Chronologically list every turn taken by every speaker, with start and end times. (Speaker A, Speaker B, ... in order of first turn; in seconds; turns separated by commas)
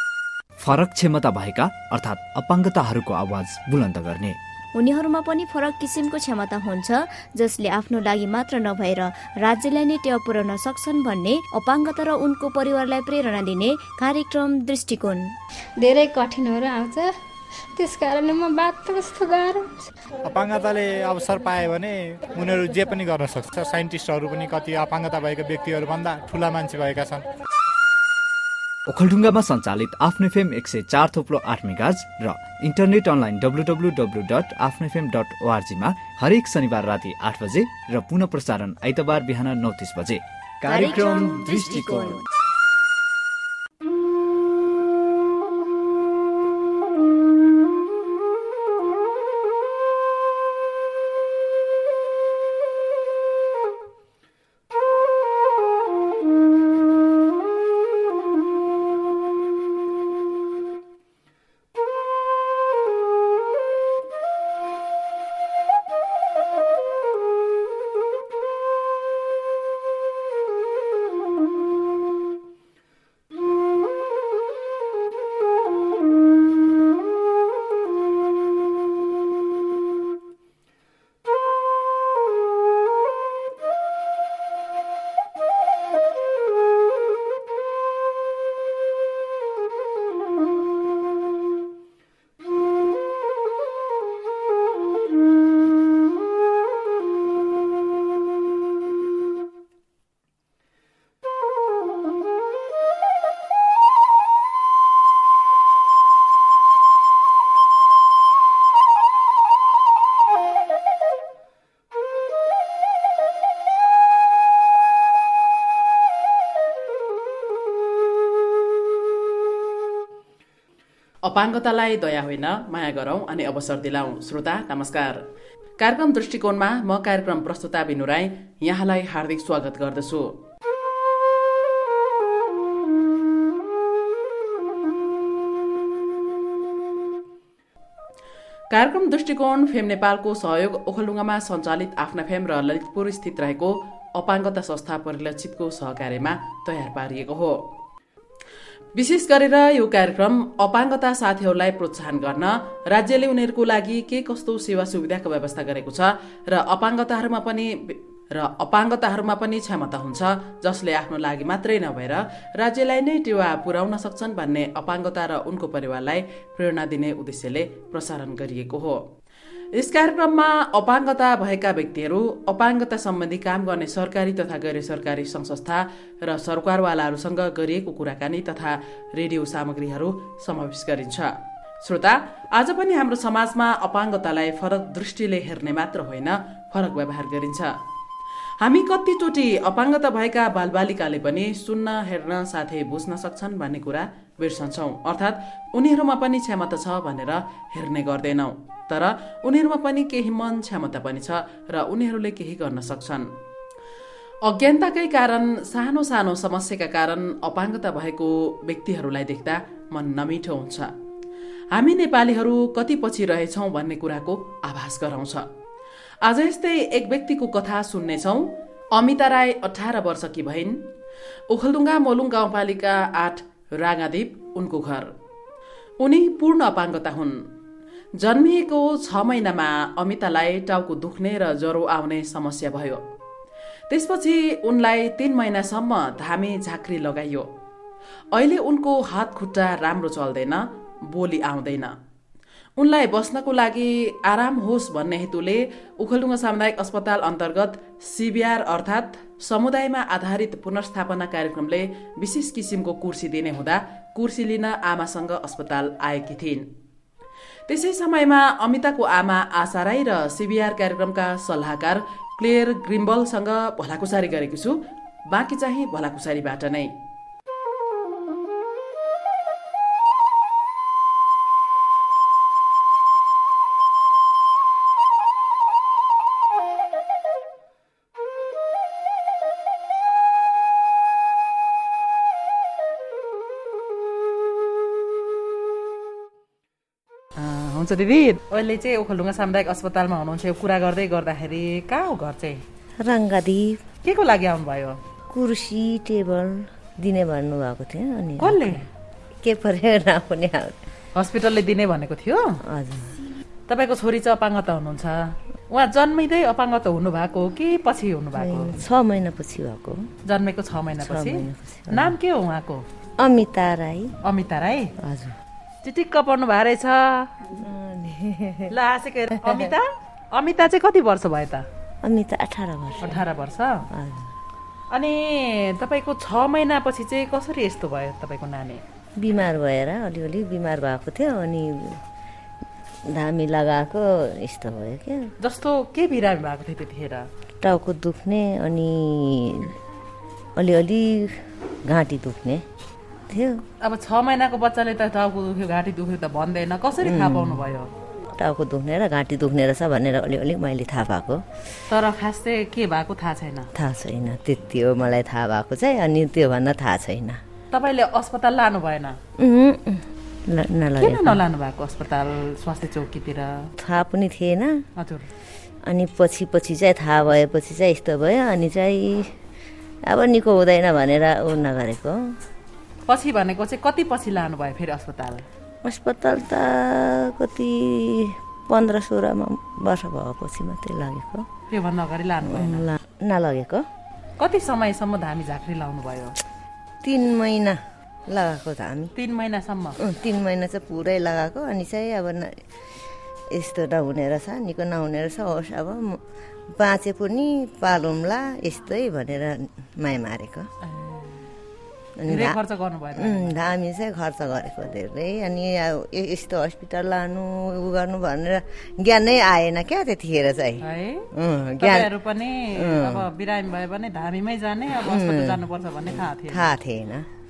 Speaker A: 0.6-4.4, Speaker B: 4.7-15.3, Speaker C: 15.8-17.1, Speaker C: 17.7-19.8, Speaker D: 20.2-27.2, Speaker A: 28.9-42.2, Speaker B: 40.6-42.2, Speaker E: 121.2-125.2, Speaker E: 125.8-130.3, Speaker E: 138.7-147.7, Speaker E: 148.9-169.1, Speaker E: 169.7-187.7, Speaker E: 188.6-203.3, Speaker E: 204.4-210.9, Speaker E: 211.7-215.5, Speaker E: 216.2-220.8, Speaker E: 221.5-225.1, Speaker E: 226.0-227.5, Speaker E: 228.2-233.0, Speaker E: 233.9-237.5, Speaker E: 238.3-241.9, Speaker E: 242.8-256.7, Speaker E: 257.7-266.9, Speaker E: 287.4-292.6, Speaker F: 293.0-293.8, Speaker E: 294.0-295.0, Speaker F: 295.3-298.8, Speaker E: 298.4-298.9, Speaker F: 299.4-300.8, Speaker E: 301.1-302.6, Speaker F: 302.6-303.2, Speaker E: 303.7-308.8, Speaker F: 308.3-310.1, Speaker E: 310.2-312.8, Speaker F: 311.0-312.1, Speaker F: 313.2-314.1, Speaker E: 314.2-314.9, Speaker F: 315.0-315.4, Speaker E: 315.8-317.3, Speaker F: 317.5-318.7, Speaker E: 318.7-321.6, Speaker F: 319.3-319.7, Speaker F: 322.0-323.2, Speaker E: 323.0-323.9, Speaker F: 323.9-324.3, Speaker E: 324.9-328.8, Speaker F: 329.2-332.0, Speaker F: 333.1-335.3, Speaker E: 335.4-337.3, Speaker F: 337.6-339.8, Speaker F: 340.6-342.6, Speaker F: 343.3-343.6, Speaker E: 343.8-347.9, Speaker F: 347.0-347.6, Speaker F: 348.3-351.4, Speaker E: 351.9-353.7, Speaker F: 353.7-357.4, Speaker E: 357.7-359.2, Speaker F: 359.4-361.4, Speaker E: 361.0-363.7, Speaker F: 363.8-364.8, Speaker E: 365.0-365.3, Speaker F: 365.8-369.3, Speaker F: 370.0-372.4, Speaker E: 373.1-375.5, Speaker F: 375.8-381.5, Speaker E: 381.7-382.9, Speaker F: 382.4-383.9, Speaker E: 384.4-386.4, Speaker F: 387.0-389.1, Speaker E: 389.1-390.0, Speaker F: 390.0-392.6, Speaker F: 393.5-400.7, Speaker E: 400.8-401.3, Speaker F: 402.2-402.6, Speaker E: 402.3-403.5, Speaker F: 403.1-412.1, Speaker E: 410.8-416.7, Speaker F: 412.7-413.3, Speaker F: 414.9-417.3